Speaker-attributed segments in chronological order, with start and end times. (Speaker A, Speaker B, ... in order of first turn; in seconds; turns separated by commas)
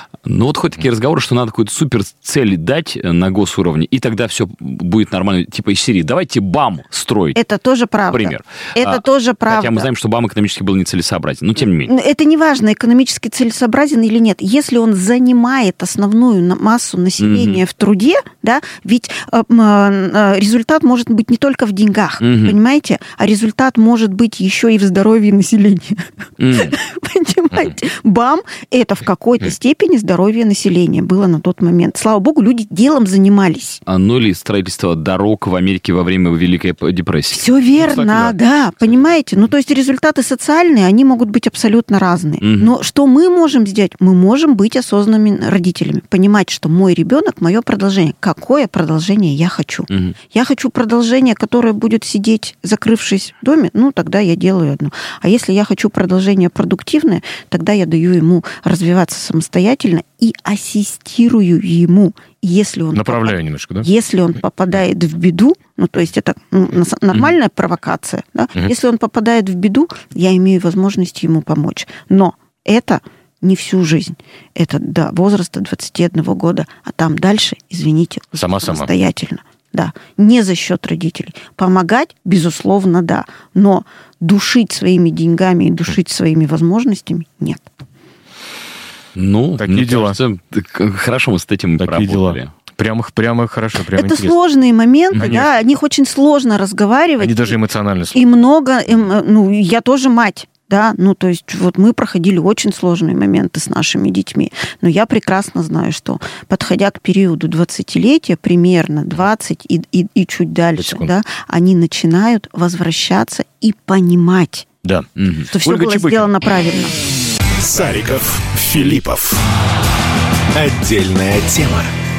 Speaker A: 0.2-7.4, Speaker B: 7.3-9.9, Speaker A: 8.1-11.9, Speaker B: 11.9-33.8, Speaker A: 17.2-17.6, Speaker A: 22.2-22.6, Speaker A: 26.4-26.8, Speaker A: 33.9-39.1, Speaker B: 37.3-87.6, Speaker A: 42.4-42.7, Speaker A: 49.9-50.1, Speaker C: 62.9-63.9, Speaker C: 78.3-78.9, Speaker A: 89.1-92.5, Speaker C: 89.6-90.2, Speaker C: 91.8-94.3, Speaker B: 93.9-97.6, Speaker A: 95.1-95.5, Speaker C: 97.2-98.2, Speaker B: 98.1-114.7, Speaker C: 110.8-111.1, Speaker C: 114.8-116.3, Speaker A: 115.2-115.5, Speaker B: 115.5-116.9, Speaker D: 117.6-119.4, Speaker D: 120.5-121.9